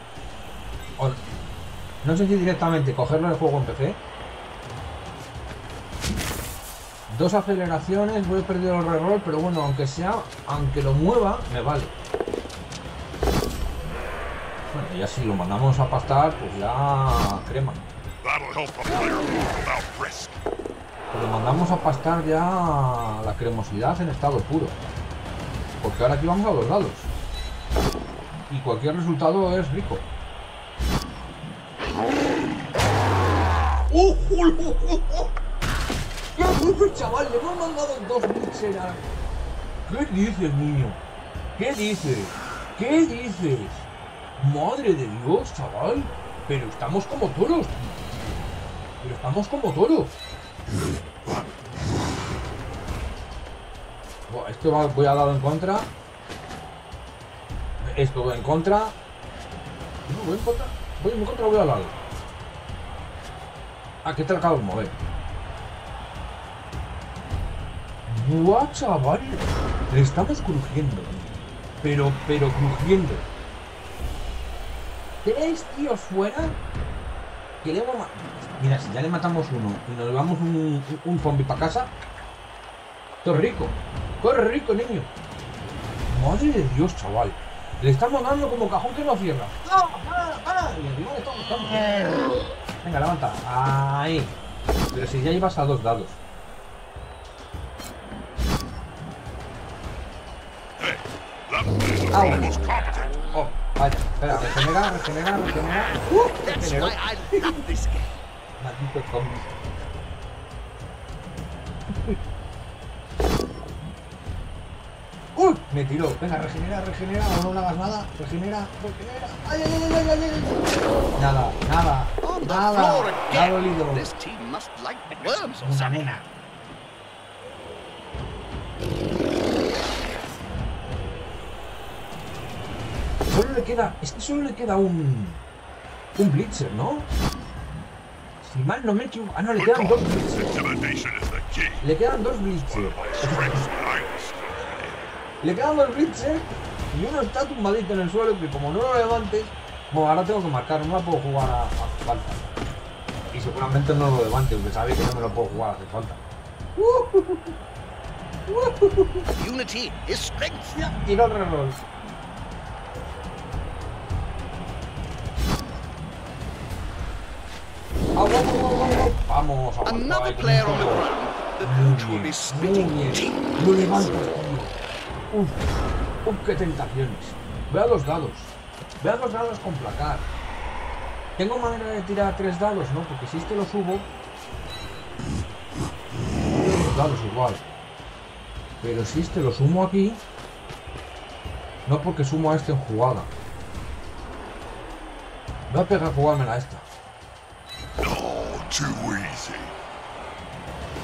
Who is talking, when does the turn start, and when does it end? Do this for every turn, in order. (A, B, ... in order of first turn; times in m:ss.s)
0:02.0-0:04.0 A
0:07.1-0:11.9 A
0:14.7-0:17.8 A
0:18.2-0:20.4 B
0:21.1-0:24.8 A
0:25.8-0:27.1 A
0:28.5-0:30.0 A
0:33.9-0:35.3 A
0:36.3-0:39.1 A
0:39.8-0:41.0 A
0:41.6-0:43.8 A
0:44.4-0:47.8 A
0:49.0-0:50.1 A
0:54.3-0:55.9 A
0:57.8-0:59.0 A
1:00.1-1:02.0 A
1:04.0-1:04.9 A
1:08.1-1:11.3 A
1:11.8-1:13.3 A
1:15.2-1:16.6 A
1:17.6-1:21.9 A
1:23.2-1:25.1 A
1:26.1-1:32.0 A
1:32.8-1:34.3 A
1:34.9-1:36.2 A
1:40.8-1:43.3 B
1:42.1-1:42.5 A
1:43.3-1:47.6 A
1:46.1-1:48.2 C
1:48.6-1:49.5 A
1:55.3-2:04.1 A
2:02.2-2:06.1 C
2:05.4-2:06.3 A
2:13.3-2:15.4 A
2:16.2-2:17.1 A
2:18.4-2:20.6 A
2:19.5-2:21.8 B
2:21.8-2:23.7 A
2:22.7-2:25.1 B
2:25.4-2:32.4 A
2:33.3-2:36.2 A
2:36.8-2:37.5 A
2:38.5-2:39.2 A
2:39.4-2:40.8 C
2:40.7-2:41.8 A
2:48.2-2:51.0 A
2:49.8-2:54.2 C
2:51.6-2:54.7 A
2:55.3-2:55.6 A
2:56.2-3:00.3 A
3:01.4-3:04.1 A
3:06.5-3:07.6 A
3:08.8-3:10.2 A
3:11.8-3:13.3 A
3:15.7-3:16.8 A
3:18.0-3:19.7 B